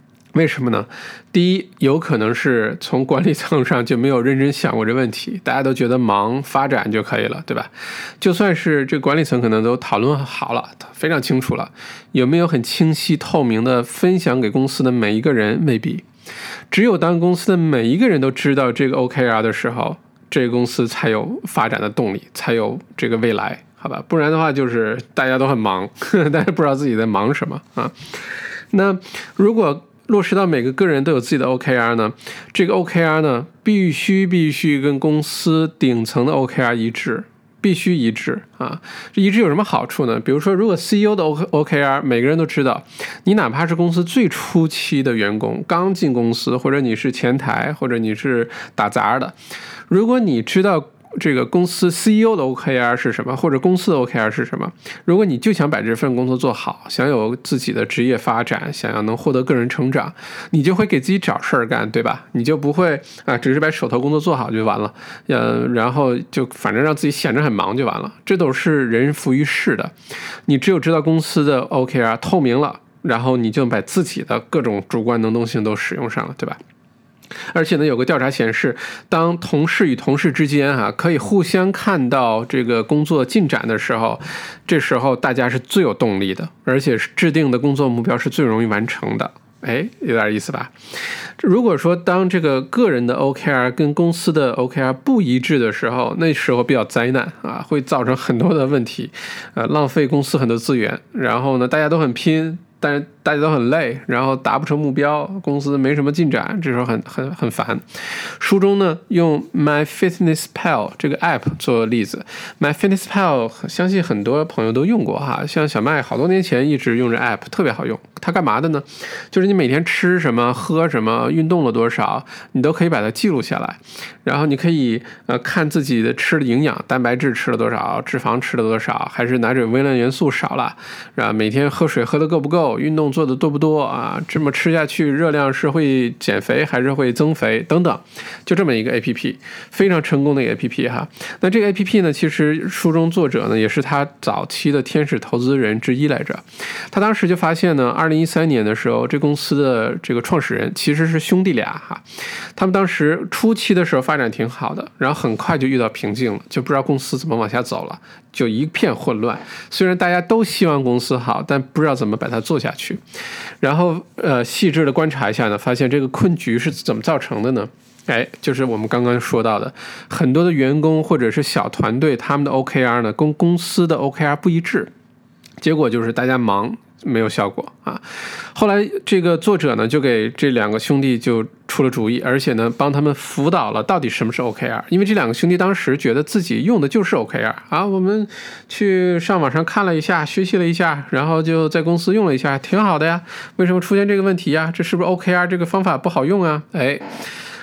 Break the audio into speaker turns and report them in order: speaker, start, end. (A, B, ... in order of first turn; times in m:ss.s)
0:00.3-0:16.0 A
0:16.7-0:49.3 A
0:49.9-1:09.9 A
1:10.5-1:16.6 A
1:17.5-1:30.7 A
1:31.4-2:32.0 A
2:32.6-2:43.0 A
2:43.6-2:54.9 A
2:55.6-3:17.0 A